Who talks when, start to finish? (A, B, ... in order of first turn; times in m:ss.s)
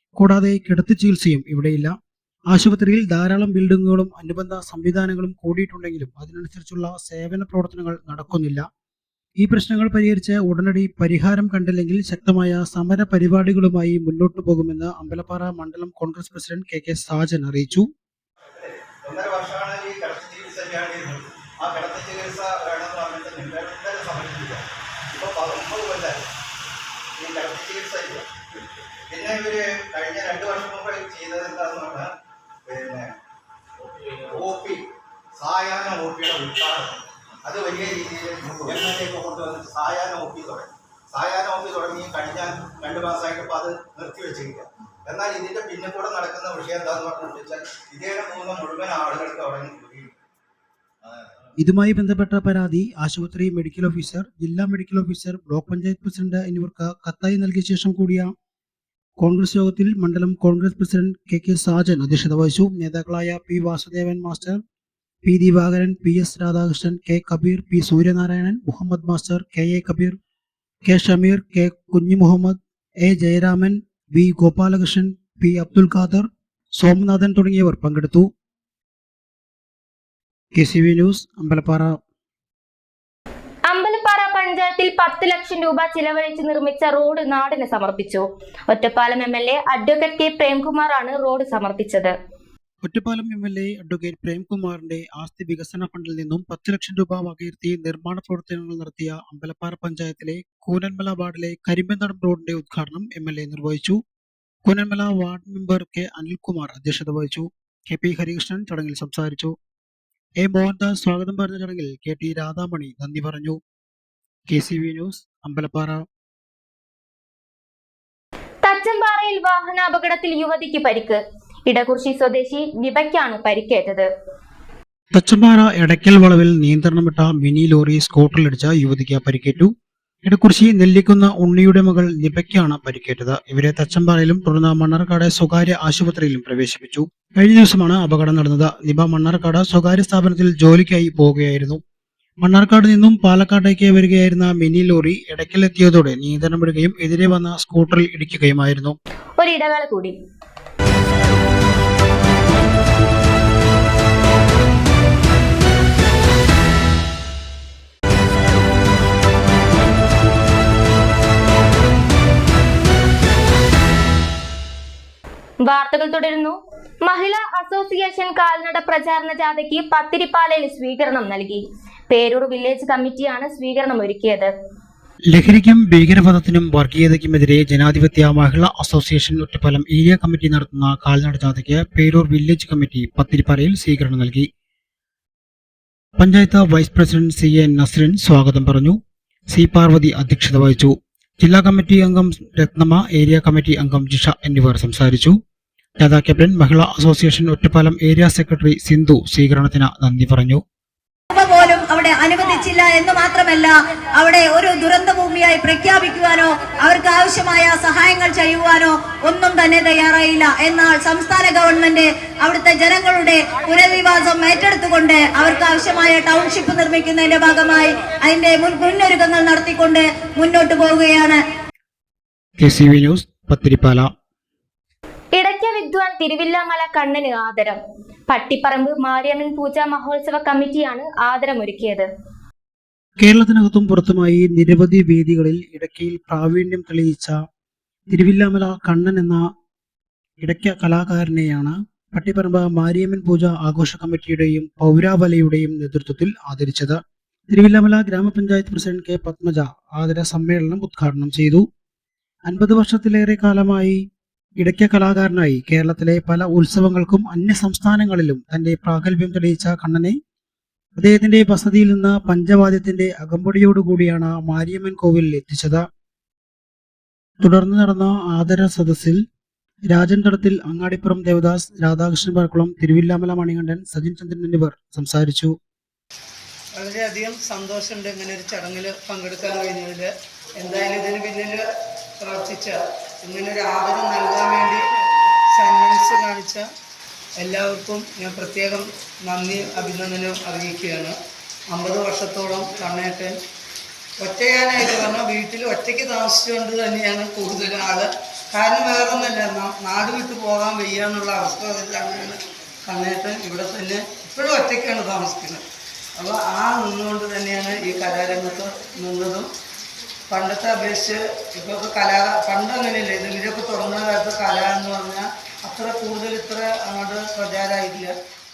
0:00.2-0:01.9 A
0:02.5-0:08.6 A
0:09.4-0:17.9 A
0:18.6-0:26.2 B
0:27.2-0:28.3 B
0:29.1-0:32.1 B
0:32.7-0:33.2 B
0:34.3-0:50.2 B
0:51.6-0:58.3 A
0:59.2-1:04.6 A
1:05.2-1:10.2 A
1:10.9-1:16.2 A
1:16.8-1:18.3 A
1:20.6-1:21.9 A
1:23.7-1:32.2 C
1:32.8-1:44.0 A
1:44.7-1:49.5 A
1:50.4-1:53.6 A
1:54.5-1:56.0 A
1:58.6-2:04.1 C
2:05.1-2:09.7 A
2:10.2-2:21.8 A
2:22.4-2:29.0 A
2:29.4-2:30.2 C
2:45.6-2:54.5 C
2:55.3-3:04.5 A
3:06.2-3:09.0 A
3:09.5-3:15.4 A
3:16.0-3:20.6 A
3:21.3-3:41.4 D
3:42.6-3:44.1 A
3:45.4-3:52.1 C
3:53.2-3:57.4 A
3:58.1-3:59.5 A
4:00.4-4:07.0 A
4:07.5-4:11.6 A
4:12.5-4:14.0 A
4:14.6-4:20.2 A
4:21.0-4:25.8 A
4:27.4-4:29.2 A
4:29.9-4:35.5 A
4:36.7-4:41.6 E
4:42.2-4:44.8 E
4:45.5-4:46.7 E
4:47.4-4:51.2 E
4:51.7-4:53.4 E
4:54.2-5:05.6 E
5:06.2-5:09.5 E
5:10.3-5:18.1 E